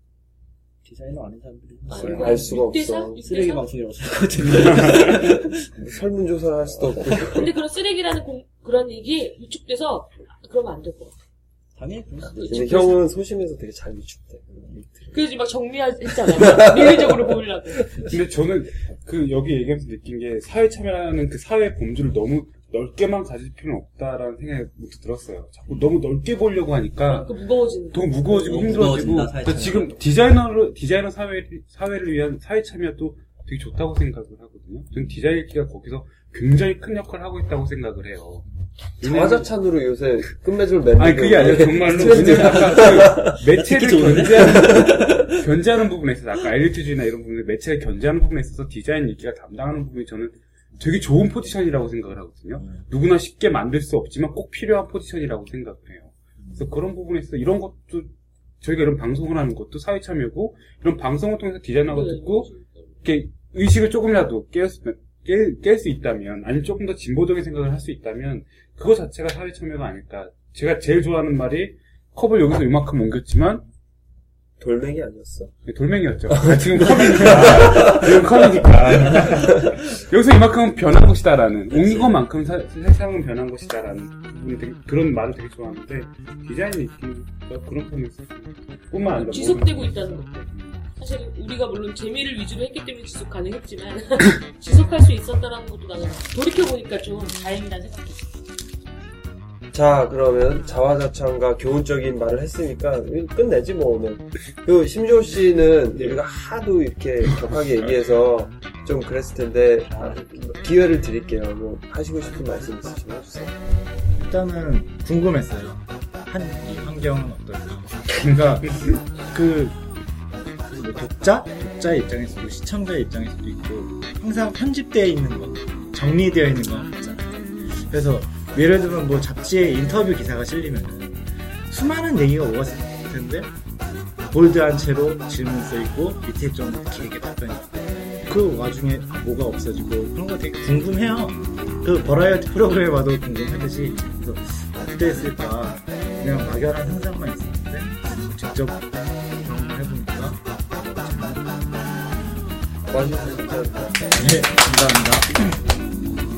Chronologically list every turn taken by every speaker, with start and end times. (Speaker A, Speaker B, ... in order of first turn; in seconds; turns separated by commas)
Speaker A: 0.8-2.6, Speaker B: 1.9-3.6, Speaker C: 2.0-3.2, Speaker A: 3.2-5.9, Speaker D: 4.8-5.1, Speaker C: 5.8-7.5, Speaker A: 7.0-7.2, Speaker B: 7.2-11.1, Speaker A: 11.8-12.7, Speaker B: 12.3-13.0, Speaker C: 12.4-15.2, Speaker B: 15.1-18.0, Speaker C: 16.2-18.1, Speaker D: 18.0-27.4, Speaker B: 27.0-29.1, Speaker D: 27.9-38.5, Speaker A: 28.4-30.0, Speaker D: 39.0-39.5, Speaker C: 39.0-43.4, Speaker D: 41.0-62.5, Speaker A: 41.8-45.1, Speaker C: 44.5-45.4, Speaker A: 52.6-52.8, Speaker A: 56.4-56.6, Speaker B: 61.9-62.8, Speaker D: 63.0-73.6, Speaker C: 74.6-75.5, Speaker D: 75.7-89.9, Speaker C: 76.3-78.4, Speaker A: 81.7-82.1, Speaker B: 89.1-98.3, Speaker C: 99.7-113.5, Speaker E: 114.1-119.8, Speaker D: 118.1-119.0, Speaker E: 120.6-133.5, Speaker E: 134.3-151.8, Speaker C: 152.9-154.1, Speaker E: 154.1-155.6